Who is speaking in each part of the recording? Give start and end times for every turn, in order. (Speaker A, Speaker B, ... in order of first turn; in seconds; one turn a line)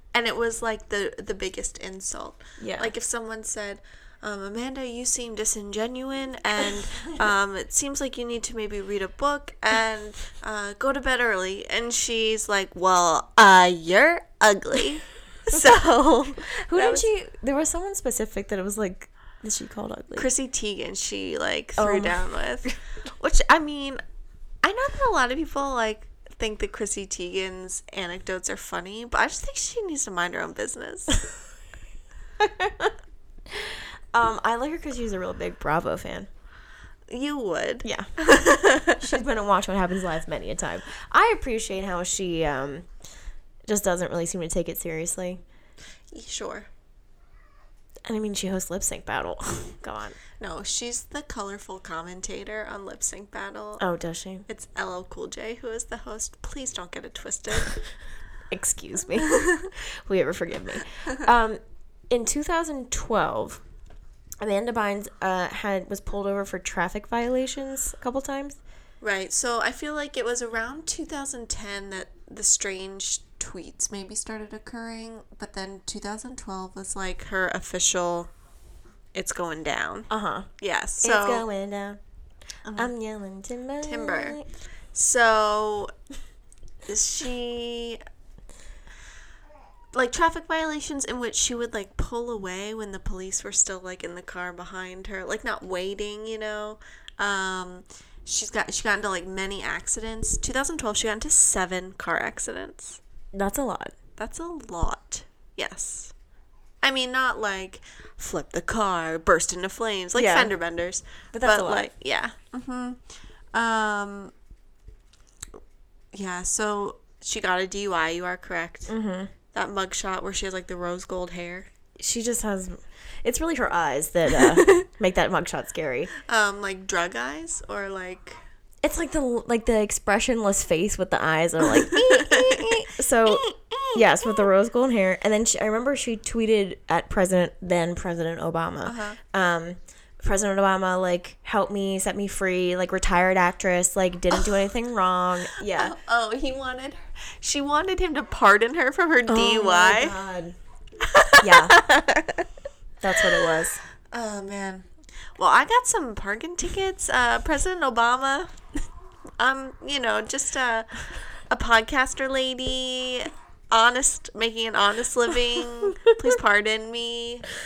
Speaker A: 0.1-17.1
Speaker B: 2.6-2.9
Speaker B: 16.6-20.3
Speaker A: 20.1-24.0
Speaker B: 21.8-22.7
Speaker A: 24.6-31.2
Speaker B: 32.4-32.9
Speaker B: 33.5-36.3
Speaker A: 37.1-39.1
Speaker B: 39.0-42.9
Speaker B: 43.7-45.4
Speaker A: 46.1-46.7
Speaker B: 48.1-50.2
Speaker A: 50.4-53.8
Speaker B: 53.8-54.5
Speaker A: 54.5-57.9
Speaker B: 58.5-63.6
Speaker B: 64.4-68.6
Speaker A: 69.0-78.3
Speaker A: 79.1-80.1
Speaker B: 80.1-82.0
Speaker A: 80.6-81.5
Speaker A: 82.7-82.9
Speaker B: 82.8-84.5
Speaker A: 83.8-84.4
Speaker A: 84.9-85.9
Speaker A: 86.8-88.0
Speaker A: 89.9-103.0
Speaker B: 103.3-103.9
Speaker A: 104.2-106.1
Speaker A: 106.8-113.0
Speaker B: 110.1-110.5
Speaker B: 111.3-111.9
Speaker A: 113.5-114.3
Speaker A: 116.1-118.9
Speaker B: 118.9-119.3
Speaker A: 119.5-121.7
Speaker B: 122.0-126.1
Speaker A: 124.4-124.7
Speaker A: 126.2-128.4
Speaker B: 128.8-145.9
Speaker A: 131.6-134.5
Speaker A: 138.8-139.2
Speaker A: 144.3-144.6
Speaker A: 145.6-150.2
Speaker B: 149.3-150.6
Speaker A: 151.1-152.4
Speaker B: 151.4-151.8
Speaker B: 153.0-153.8
Speaker A: 154.1-158.6
Speaker A: 159.4-167.4